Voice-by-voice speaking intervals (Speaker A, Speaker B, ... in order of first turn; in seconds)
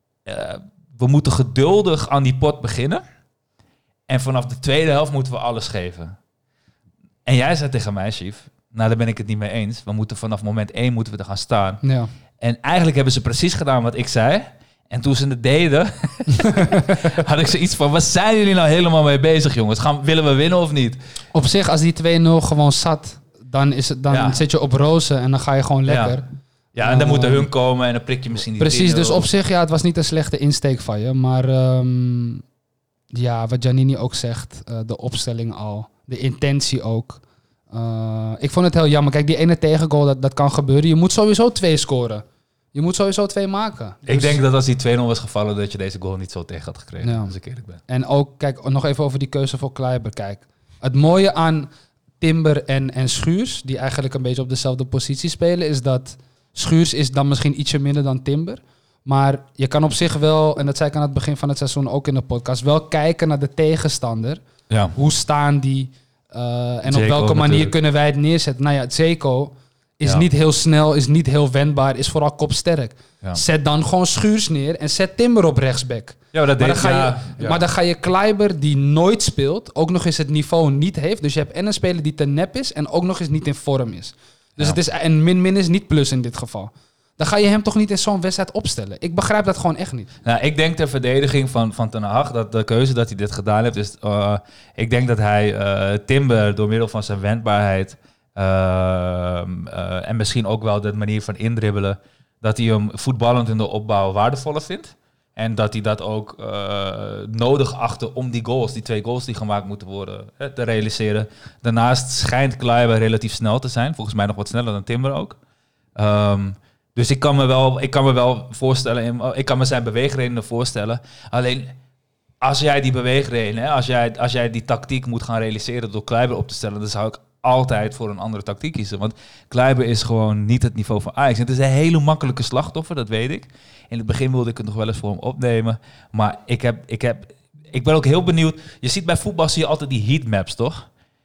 Speaker A: 0.2-3.0, 4.1-6.2, 7.2-11.8, 12.4-21.0, 24.1-24.4, 25.9-26.2, 26.7-29.3, 44.0-47.8, 64.7-64.9, 66.9-67.7, 76.3-77.6, 90.2-115.4, 116.0-121.8, 122.4-140.9
Speaker B: 11.8-12.1, 21.3-26.2, 26.8-27.5, 28.6-32.4, 33.1-44.4, 47.0-47.3, 47.9-51.7, 52.2-64.4, 64.9-90.1